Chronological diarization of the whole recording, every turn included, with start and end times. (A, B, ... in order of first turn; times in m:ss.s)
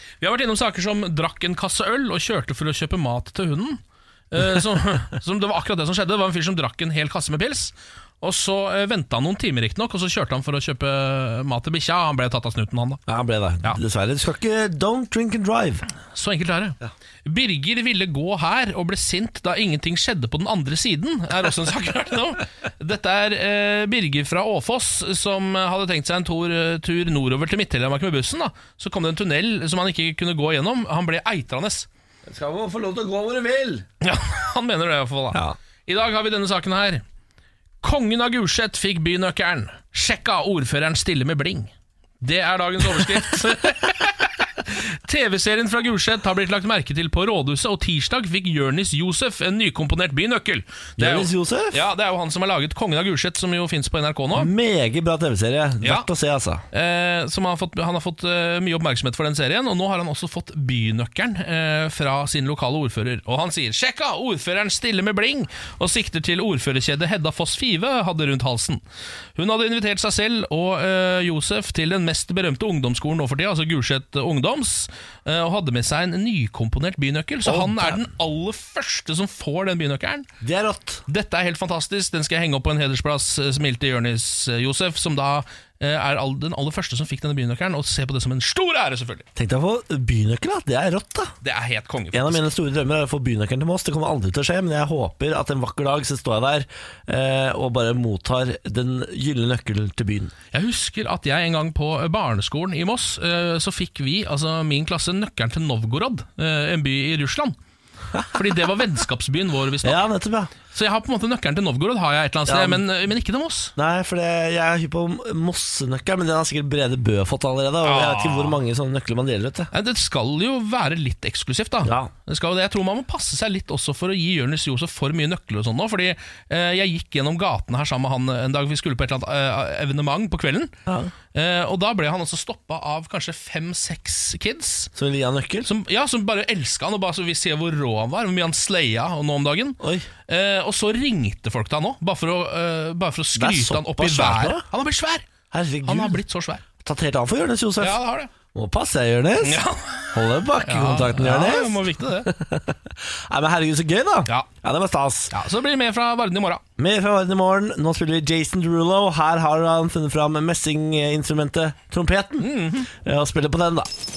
0:00.2-0:13.0 A
0:13.1-0:15.8 B
0:16.1-0:31.9 A
0:32.3-0:33.8 B
0:34.0-0:37.0 A
0:37.8-0:54.5 A
0:51.0-0:51.8 B
0:54.3-0:56.6 B
0:55.8-0:56.1 A
0:56.7-1:08.8 A
1:09.4-1:20.3 A
1:17.4-1:18.0 B
1:20.4-1:21.0 B
1:21.1-1:29.3 A
1:29.4-1:31.3 B
1:31.4-1:32.5 A
1:32.1-1:40.3 B
1:40.5-1:47.6 A
1:48.1-1:48.7 B
1:48.3-1:50.0 A
1:49.8-1:50.5 B
1:50.6-1:53.7 A
1:52.5-1:52.8 B
1:53.8-1:59.7 B
1:57.8-1:58.6 A
1:59.7-2:10.7 A
2:01.8-2:02.1 B
2:10.9-2:11.1 B
2:11.3-2:14.9 A
2:15.0-2:15.7 B
2:15.6-2:25.3 A
2:19.8-2:20.1 B
2:23.4-2:24.6 B
2:25.5-2:26.2 B
2:25.8-2:26.6 A
2:26.8-2:28.0 B
2:27.8-2:28.3 A
2:28.5-2:29.6 B
2:29.4-2:32.3 A
2:30.1-2:35.3 B
2:35.3-2:36.6 A
2:36.8-2:43.9 B
2:42.4-2:42.9 A